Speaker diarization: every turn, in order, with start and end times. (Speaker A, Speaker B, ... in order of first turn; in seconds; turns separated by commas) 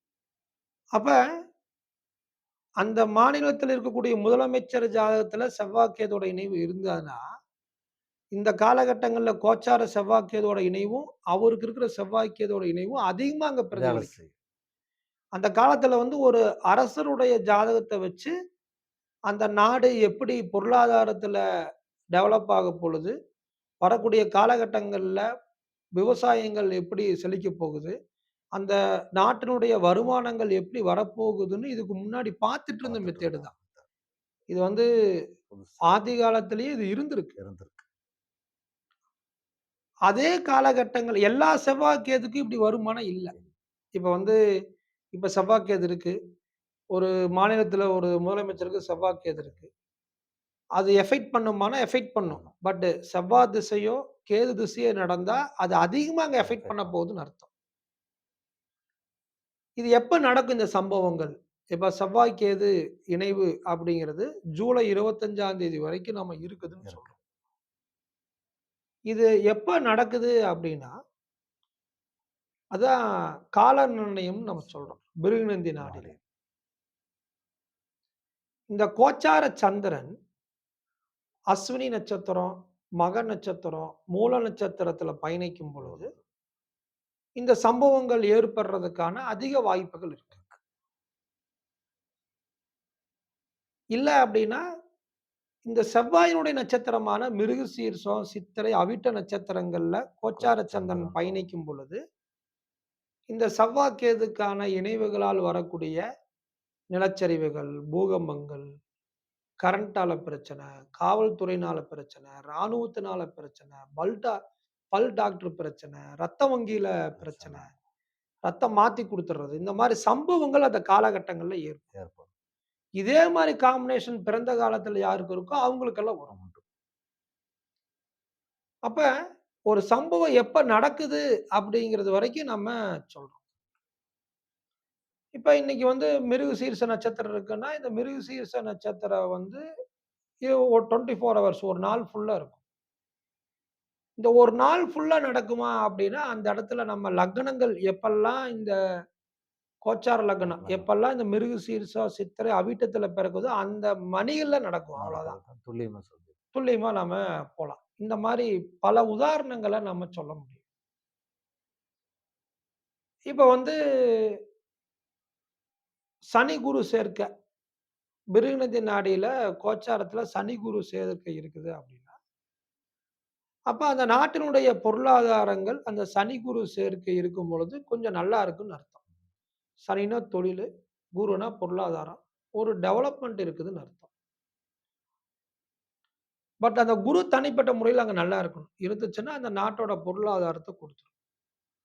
Speaker A: 2.8-7.2, Speaker A: 8.3-14.1, Speaker B: 13.7-14.3, Speaker A: 15.3-18.3, Speaker A: 19.3-21.4, Speaker A: 22.1-23.1, Speaker A: 23.8-25.2, Speaker A: 26.0-27.9, Speaker A: 28.6-33.5, Speaker B: 32.8-33.8, Speaker A: 34.5-34.9, Speaker B: 35.5-36.0, Speaker A: 35.9-37.3, Speaker B: 37.4-37.9, Speaker A: 40.1-43.3, Speaker A: 43.9-44.4, Speaker A: 45.1-46.1, Speaker A: 46.9-49.7, Speaker A: 50.8-57.5, Speaker B: 56.4-56.9, Speaker A: 59.8-67.1, Speaker B: 66.8-67.1, Speaker A: 69.1-70.9, Speaker A: 73.5-76.1, Speaker B: 75.8-76.2, Speaker A: 78.7-80.1, Speaker A: 81.5-86.1, Speaker B: 85.8-86.2, Speaker A: 87.4-90.4, Speaker A: 93.9-94.6, Speaker A: 95.7-102.0, Speaker B: 100.4-101.5, Speaker A: 103.3-106.0, Speaker A: 106.9-108.7, Speaker A: 109.6-114.3, Speaker A: 114.9-117.7, Speaker B: 117.2-117.7, Speaker A: 118.4-121.9, Speaker B: 121.9-122.2, Speaker A: 123.0-126.3, Speaker B: 126.3-126.6, Speaker A: 129.7-133.4, Speaker A: 135.3-139.6, Speaker A: 140.4-142.6, Speaker A: 144.2-148.7, Speaker A: 149.8-155.3, Speaker B: 150.4-150.9, Speaker B: 155.0-156.3, Speaker A: 156.5-160.6, Speaker A: 163.3-164.4, Speaker A: 166.3-167.3, Speaker A: 168.3-172.1, Speaker A: 173.7-179.0, Speaker A: 179.8-184.1, Speaker A: 186.6-191.1